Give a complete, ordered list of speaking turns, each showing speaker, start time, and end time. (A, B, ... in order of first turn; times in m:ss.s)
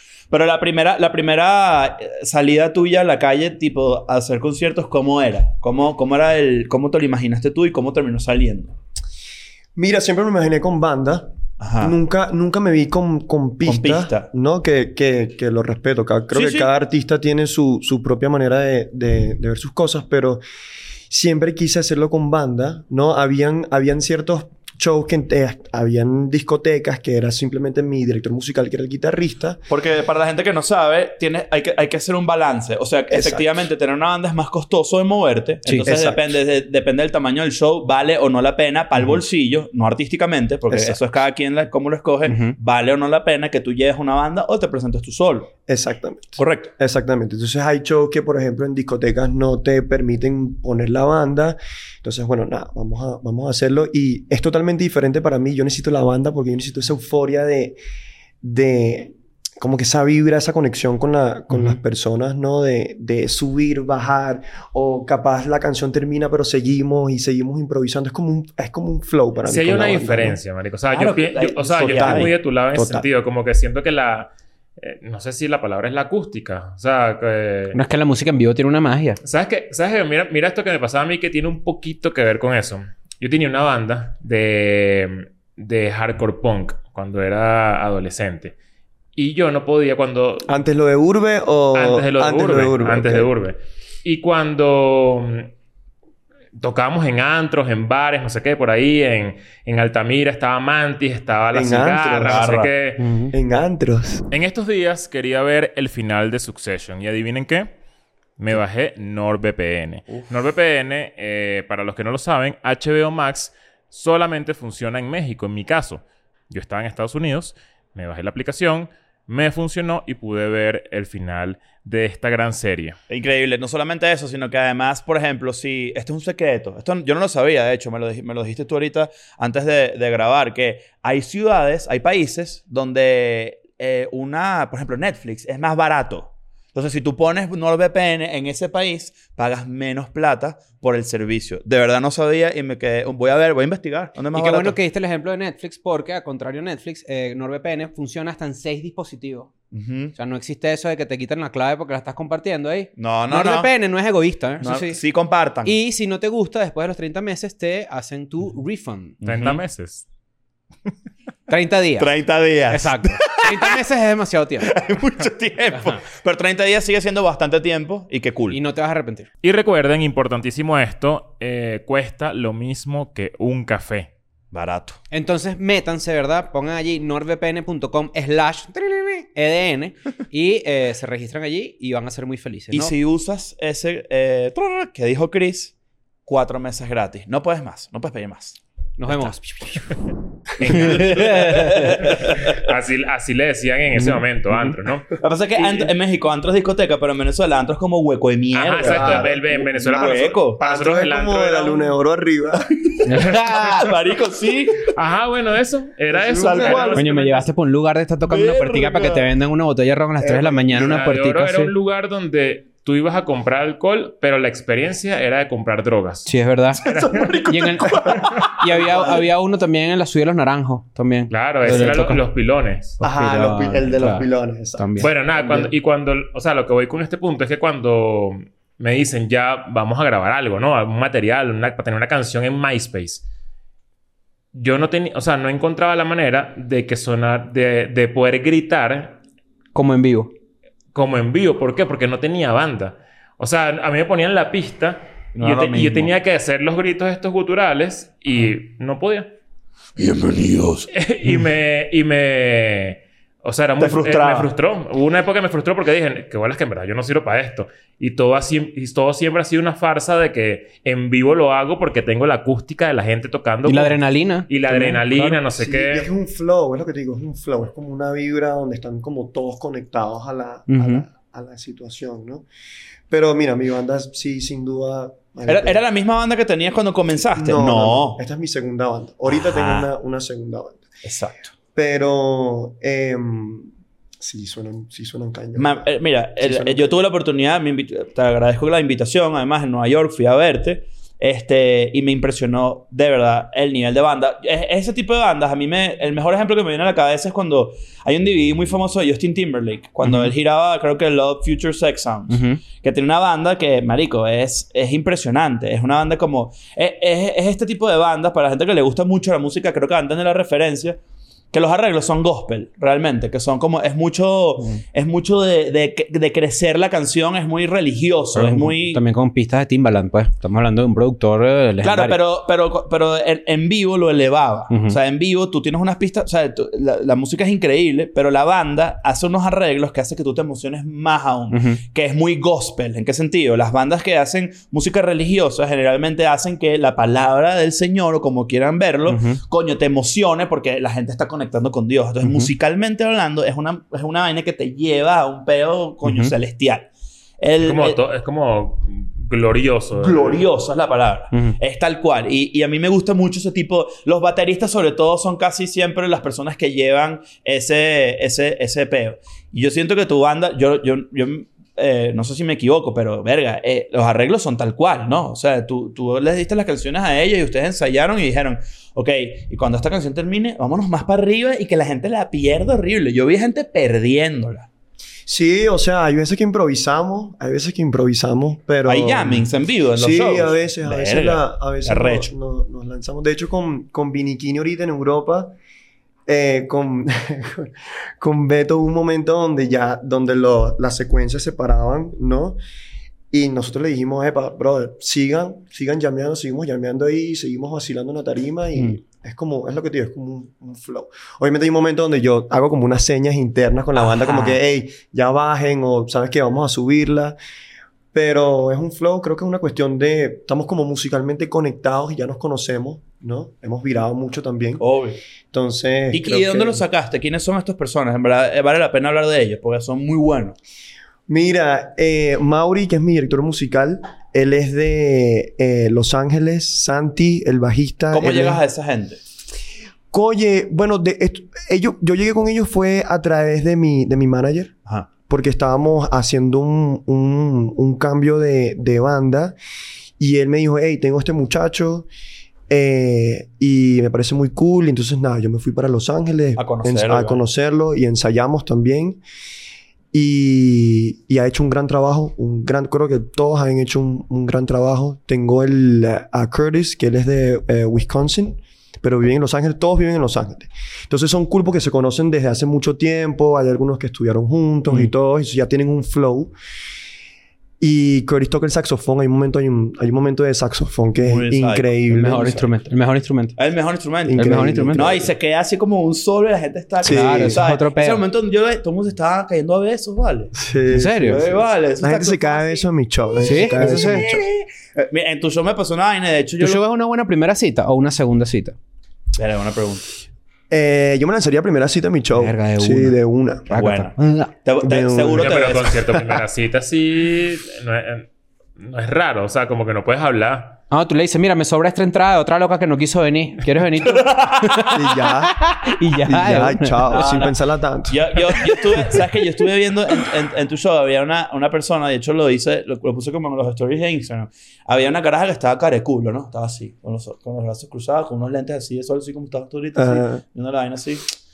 0:00.3-0:08.8 A
0:09.8-0:20.4 B
0:11.6-0:12.0 A
0:13.6-0:14.3 A
0:16.3-0:16.7 A
0:21.1-0:29.6 B
0:29.7-0:45.5 A
0:33.1-0:33.5 B
0:35.6-0:35.9 C
0:35.8-0:36.3 B
0:40.7-0:41.0 B
0:42.3-0:42.6 C
0:45.7-0:57.8 B
0:46.4-0:46.7 A
0:58.4-1:10.4 B
1:09.4-1:17.8 D
1:10.9-1:12.3 A
1:11.8-1:13.1 B
1:17.7-1:19.2 C
1:19.2-1:28.5 D
1:29.2-1:30.5 D
1:30.5-1:33.3 B
1:31.7-1:35.5 D
1:36.6-1:43.2 D
1:41.5-1:42.4 B
1:42.2-1:42.7 A
1:43.3-1:44.2 B
1:44.3-1:47.7 D
1:48.4-2:03.0 D
2:03.1-2:24.8 A
2:24.3-2:29.5 C
2:29.7-2:30.1 A
2:30.1-2:35.0 C
2:33.0-2:33.7 A
2:34.6-2:35.7 A
2:35.6-2:39.2 C
2:39.2-2:39.6 A
2:39.2-2:40.0 D
2:41.5-2:42.1 C
2:42.0-2:43.8 A
2:42.7-2:44.7 C
2:44.6-2:48.6 A
2:48.5-2:49.3 C
2:49.4-2:54.1 D
2:54.5-2:55.0 A
2:55.1-3:02.9 C
3:02.7-3:05.7 A
3:06.2-3:09.3 A
3:09.0-3:09.9 C
3:10.6-3:15.9 D
3:10.6-3:12.7 A
3:10.7-3:11.9 C
3:14.0-3:14.7 C
3:15.2-3:20.6 A
3:18.5-3:21.9 D
3:18.8-3:23.3 B
3:23.0-3:23.9 C
3:23.2-3:24.9 A
3:24.9-3:27.4 D
3:26.1-3:27.0 B
3:26.3-3:27.1 A
3:27.0-3:31.7 C
3:28.3-3:29.3 A
3:30.2-3:30.9 B
3:30.7-3:37.4 D
3:36.2-3:36.8 C
3:36.8-3:39.1 A
3:37.5-3:42.2 C
3:38.0-3:39.1 B
3:41.3-3:43.0 D
3:43.0-3:45.1 C
3:43.0-3:45.7 B
3:45.0-3:53.2 D
3:54.5-3:59.2 D
3:59.7-4:00.3 C
4:00.9-4:09.3 D
4:05.4-4:06.1 A
4:10.0-4:11.4 A
4:10.9-4:26.1 D
4:13.8-4:14.5 A
4:23.7-4:25.4 C
4:25.6-4:32.5 B
4:30.7-4:31.0 C
4:33.1-4:35.8 B
4:35.5-4:38.2 A
4:37.4-4:40.8 B
4:39.3-4:39.9 A
4:41.0-4:41.5 A
4:41.8-4:47.0 B
4:45.6-5:11.0 A
5:00.0-5:00.3 C
5:02.3-5:02.6 C
5:11.5-5:19.0 A
5:18.4-5:22.2 C
5:21.8-5:46.9 A
5:24.7-5:25.0 C
5:31.5-5:31.8 C
5:39.1-5:39.4 C
5:42.2-5:42.5 C
5:46.0-5:46.3 C
5:47.4-5:48.0 A
5:47.6-5:50.4 D
5:50.0-6:14.7 A
5:51.3-5:51.6 C
6:15.3-6:25.5 B
6:18.9-6:22.3 A
6:26.3-6:32.6 B
6:33.3-6:47.4 B
6:44.0-6:44.6 A
6:48.1-6:54.8 B
6:54.8-6:55.2 A
6:55.5-6:56.8 B
6:56.1-7:00.6 A
7:01.3-7:08.6 B
7:08.1-7:09.2 A
7:10.1-7:14.7 B
7:15.3-7:19.6 B
7:20.2-7:22.1 B
7:22.7-7:29.2 B
7:26.6-7:27.4 A
7:30.1-7:46.5 B
7:47.8-7:52.6 B
7:51.2-7:52.6 A
7:52.1-7:53.6 C
7:53.6-8:00.5 A
7:54.3-7:55.3 B
7:54.3-7:55.1 C
7:57.0-7:57.6 B
7:57.0-7:58.2 C
8:00.6-8:04.4 B
8:00.9-8:01.4 C
8:01.3-8:02.9 A
8:03.4-8:04.3 C
8:03.4-8:06.8 A
8:06.6-8:08.8 C
8:09.4-8:10.1 A
8:10.7-8:13.8 B
8:12.4-8:14.5 C
8:13.8-8:16.0 A
8:14.8-8:16.0 B
8:15.3-8:20.8 D
8:20.9-8:27.4 C
8:24.0-8:25.0 A
8:24.9-8:25.6 B
8:26.2-8:28.3 B
8:27.1-8:27.6 A
8:28.1-8:41.3 A
8:40.0-8:40.4 B